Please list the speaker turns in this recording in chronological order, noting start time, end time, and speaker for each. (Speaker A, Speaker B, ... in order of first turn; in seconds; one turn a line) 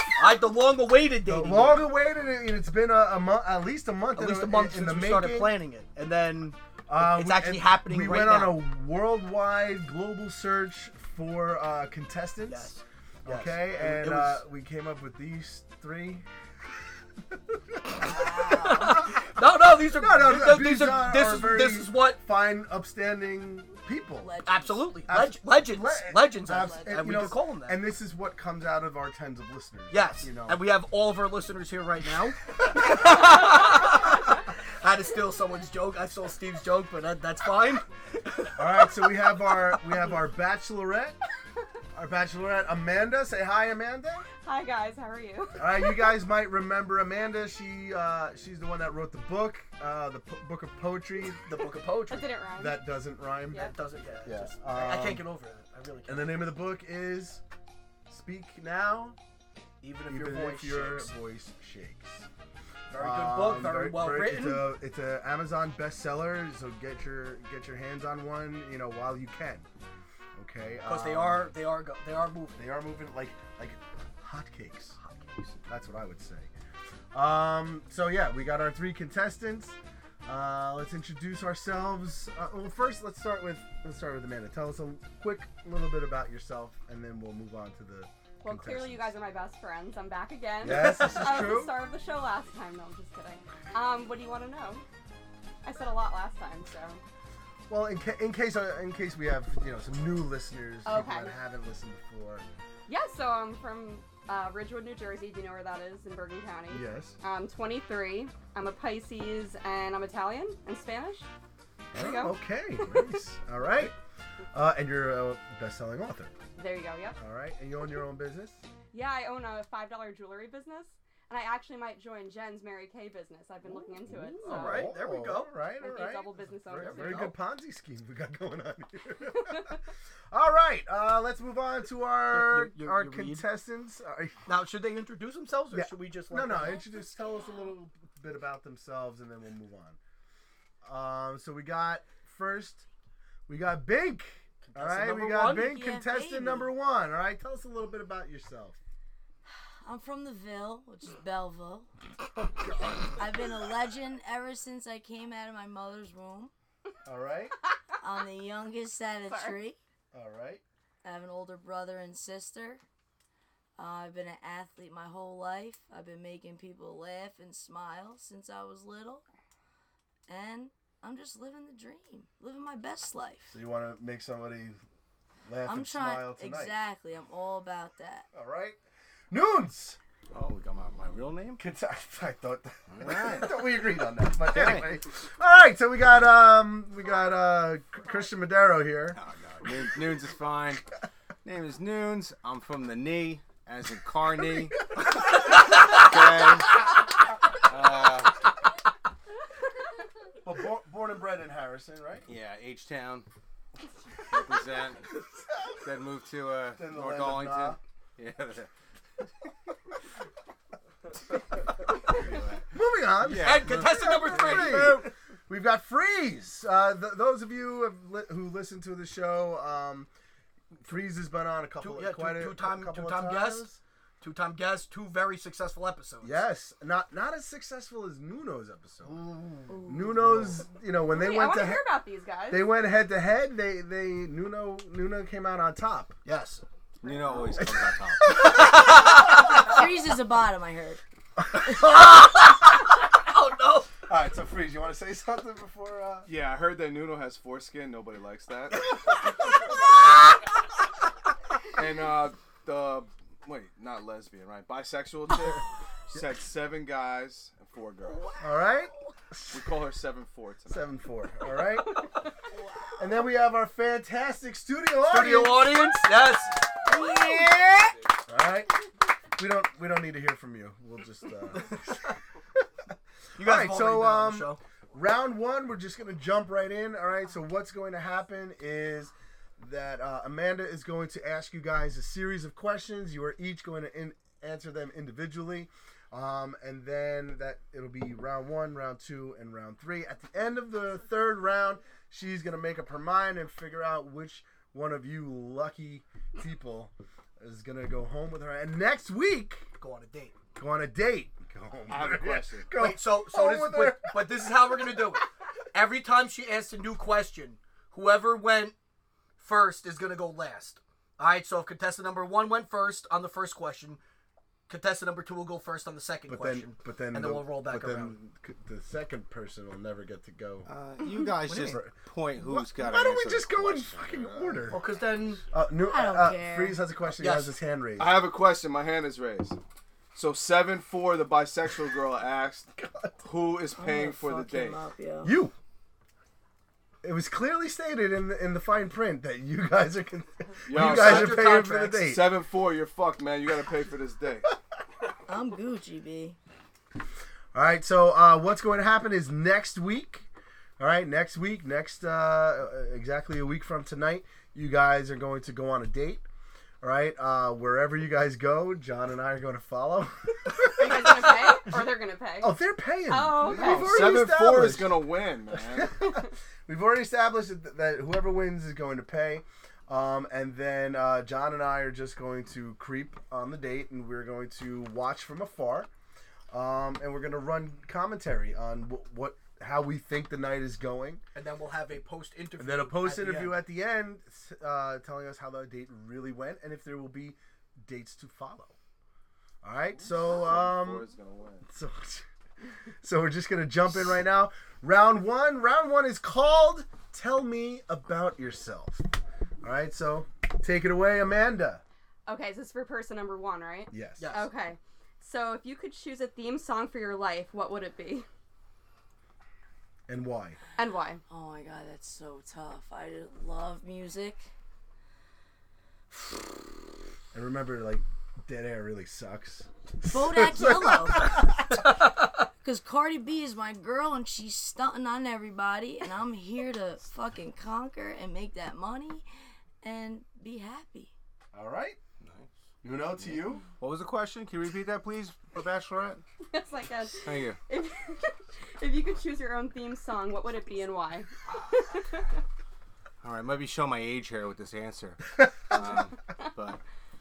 Speaker A: 0.1-1.9
Speaker B: 1.2-5.5
Speaker A: 4.1-8.6
Speaker B: 6.9-12.7
Speaker A: 12.5-14.4
Speaker B: 13.2-16.2
Speaker C: 18.0-19.1
Speaker A: 19.3-22.2
Speaker B: 19.9-24.3
Speaker C: 24.2-24.8
Speaker A: 24.4-27.8
Speaker B: 25.1-30.6
Speaker A: 29.9-37.9
Speaker B: 38.5-41.2
Speaker B: 41.9-44.3
Speaker D: 44.4-45.9
Speaker B: 45.6-51.5
Speaker A: 51.5-52.3
Speaker D: 52.1-52.8
Speaker B: 52.6-53.7
Speaker A: 53.6-56.4
Speaker B: 54.2-55.2
Speaker B: 56.1-57.4
Speaker B: 58.1-59.2
Speaker A: 59.8-61.1
Speaker B: 60.1-62.3
Speaker A: 62.9-64.7
Speaker B: 62.9-69.7
Speaker B: 70.3-71.5
Speaker A: 70.8-72.6
Speaker B: 72.5-75.0
Speaker A: 75.0-75.6
Speaker B: 75.7-76.5
Speaker B: 77.1-89.1
Speaker D: 88.4-94.8
Speaker B: 90.6-91.7
Speaker D: 95.6-97.0
Speaker B: 97.7-102.5
Speaker D: 100.8-101.3
Speaker D: 102.9-111.3
Speaker B: 106.7-107.1
Speaker B: 111.9-113.9
Speaker D: 111.9-112.4
Speaker B: 114.5-116.3
Speaker D: 116.6-117.2
Speaker B: 117.2-118.6
Speaker D: 118.9-124.9
Speaker B: 123.7-129.7
Speaker A: 124.4-125.5
Speaker D: 125.8-127.3
Speaker A: 126.8-127.3
Speaker D: 129.4-129.7
Speaker B: 130.3-134.5
Speaker A: 132.3-133.4
Speaker A: 134.4-136.8
Speaker B: 135.7-140.0
Speaker B: 140.8-142.8
Speaker B: 143.5-148.8
Speaker A: 144.6-145.7
Speaker C: 145.4-146.7
Speaker C: 149.8-151.9
Speaker C: 153.2-156.5
Speaker B: 157.0-157.6
Speaker C: 158.0-159.8
Speaker D: 159.3-159.5
Speaker B: 160.1-160.6
Speaker C: 161.0-162.8
Speaker C: 163.8-169.2
Speaker C: 170.3-173.5
Speaker B: 173.5-174.8
Speaker B: 175.4-176.8
Speaker C: 175.6-178.3
Speaker B: 178.3-178.8
Speaker B: 179.3-180.0
Speaker E: 180.3-181.6
Speaker B: 181.6-189.2
Speaker E: 182.9-183.7
Speaker E: 184.5-184.9
Speaker E: 189.1-190.8
Speaker E: 191.4-194.8
Speaker E: 195.9-196.8
Speaker E: 197.7-198.4
Speaker B: 200.4-202.2
Speaker E: 202.3-203.3
Speaker E: 204.3-205.1
Speaker E: 205.8-208.7
Speaker B: 206.8-207.8
Speaker E: 212.0-215.1
Speaker B: 212.7-220.1
Speaker A: 213.4-215.0
Speaker B: 220.8-223.8
Speaker A: 221.8-223.7
Speaker A: 224.2-226.4
Speaker B: 226.2-229.2
Speaker A: 229.0-229.8
Speaker C: 229.7-230.2
Speaker B: 229.8-231.8
Speaker D: 231.1-232.7
Speaker B: 232.5-236.2
Speaker A: 236.2-236.6
Speaker E: 237.0-238.5
Speaker C: 239.5-241.0
Speaker A: 243.2-243.9
Speaker B: 244.1-246.3
Speaker F: 246.2-248.9
Speaker F: 251.7-258.3
Speaker C: 258.1-258.4
Speaker B: 258.4-259.6
Speaker F: 259.5-260.9
Speaker B: 260.7-262.0
Speaker B: 263.0-265.8
Speaker A: 265.0-266.6
Speaker C: 266.9-267.9
Speaker B: 268.3-268.7
Speaker B: 269.4-271.8
Speaker A: 271.5-272.1
Speaker A: 273.4-274.6
Speaker B: 273.4-299.7
Speaker A: 299.8-300.4
Speaker B: 300.6-304.4
Speaker F: 301.9-302.8
Speaker A: 302.8-308.7
Speaker A: 309.4-314.0
Speaker A: 314.7-318.1
Speaker B: 316.3-320.7
Speaker E: 320.6-324.8
Speaker A: 321.4-321.8
Speaker B: 321.6-324.8
Speaker A: 324.7-325.4
Speaker B: 325.5-328.2
Speaker C: 325.8-326.8
Speaker A: 327.1-327.5
Speaker F: 328.0-329.6
Speaker F: 330.1-334.8
Speaker B: 332.8-333.2
Speaker C: 333.7-335.3
Speaker B: 335.2-335.5
Speaker B: 337.0-342.3
Speaker F: 340.6-344.5
Speaker A: 340.7-342.1
Speaker C: 345.3-346.4
Speaker B: 347.5-350.3
Speaker B: 350.8-356.2
Speaker B: 356.8-375.9
Speaker D: 360.8-362.6
Speaker D: 363.1-364.2
Speaker F: 363.4-366.0
Speaker B: 376.5-381.2
Speaker A: 381.3-383.6
Speaker B: 382.6-388.7
Speaker B: 389.6-391.1
Speaker F: 390.0-391.7
Speaker B: 391.6-392.2
Speaker B: 393.0-399.1
Speaker B: 399.6-401.8
Speaker D: 402.2-408.3
Speaker B: 403.9-404.2
Speaker A: 404.2-404.5
Speaker B: 410.1-410.6
Speaker D: 410.8-411.2
Speaker C: 411.3-414.4
Speaker B: 417.3-421.4
Speaker C: 420.1-421.3
Speaker C: 422.6-429.2
Speaker C: 429.8-431.1
Speaker B: 431.5-432.0
Speaker E: 432.2-432.5
Speaker B: 432.8-433.6
Speaker E: 433.2-436.2
Speaker D: 436.5-442.2
Speaker E: 437.2-437.6
Speaker E: 443.2-446.8